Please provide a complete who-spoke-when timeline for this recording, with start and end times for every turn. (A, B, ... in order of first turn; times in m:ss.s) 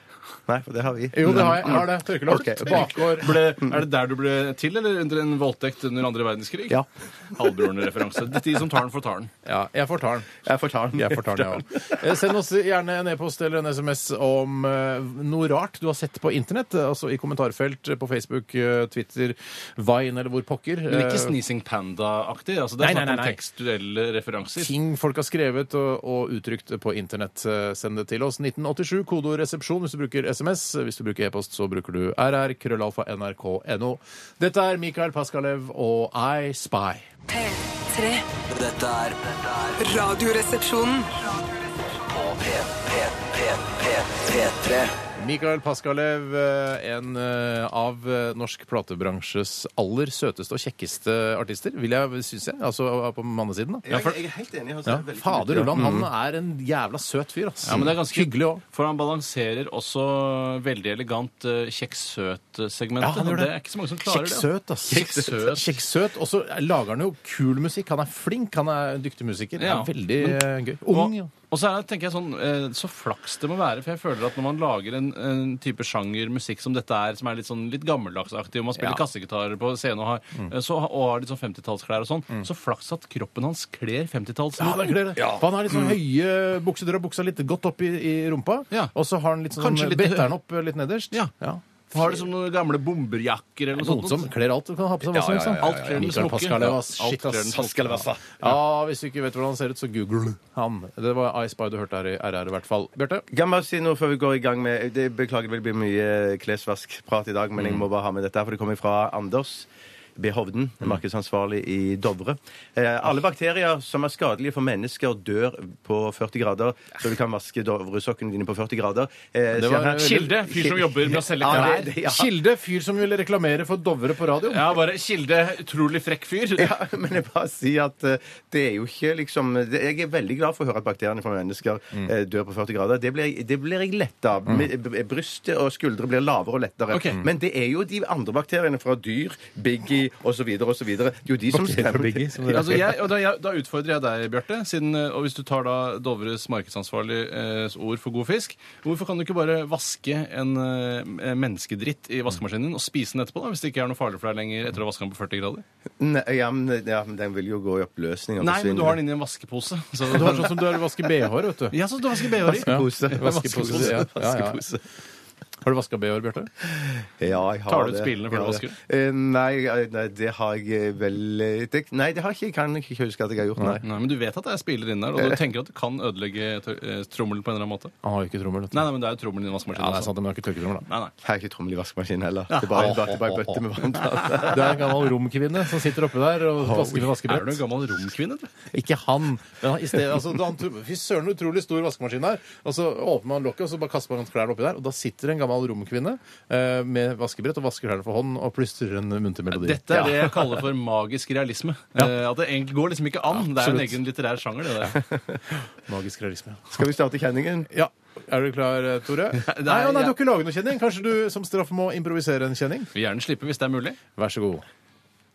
0:00.5-0:03.8 A
0:01.1-0:03.3 B
0:02.6-0:09.3 C
0:09.4-0:10.4 B
0:10.4-0:11.9 A
0:10.9-0:21.4 B
0:20.9-0:24.7 C
0:22.8-0:23.4 B
0:24.6-0:37.1 B
0:37.3-0:38.3 D
0:38.5-0:40.0 E
0:39.8-0:41.2 D
0:42.0-0:44.9 E
0:45.2-0:54.0 B
0:53.8-0:56.1 A
0:54.9-0:58.6 B
0:57.6-1:05.8 C
1:03.0-1:03.5 B
1:04.0-1:11.3 B
1:04.9-1:05.3 A
1:09.6-1:25.0 C
1:24.6-1:31.6 B
1:25.2-1:26.0 A
1:29.6-1:30.3 C
1:31.9-1:34.3 C
1:33.8-1:43.2 B
1:35.1-1:36.7 A
1:35.6-1:37.9 C
1:37.5-1:38.5 A
1:43.3-2:02.3 A
1:59.5-2:00.3 B
1:59.9-2:01.9 C
2:01.5-2:04.8 B
2:04.5-2:06.8 C
2:06.6-2:22.8 A
2:16.9-2:17.2 C
2:21.5-2:23.0 B
2:22.5-2:35.6 C
2:36.0-2:39.0 A
2:38.4-2:40.6 C
2:40.1-2:41.8 B
2:41.7-2:44.0 C
2:42.4-2:44.8 A
2:42.5-2:44.6 B
2:45.6-2:46.5 B
2:46.7-2:53.8 A
2:47.7-2:48.8 C
2:53.8-2:57.9 C
2:58.0-2:58.9 B
2:58.7-3:00.1 C
2:59.7-3:00.9 B
3:00.9-3:01.1 C
3:01.2-3:04.9 A
3:02.5-3:02.9 C
3:02.7-3:03.6 B
3:04.4-3:07.6 B
3:07.1-3:08.5 C
3:08.7-3:20.4 B
3:19.5-3:25.0 C
3:23.3-3:24.0 B
3:25.0-3:25.4 A
3:25.9-3:26.9 B
3:26.7-3:27.7 A
3:27.7-3:32.9 B
3:29.3-3:30.2 C
3:32.9-3:34.0 C
3:34.2-3:34.6 B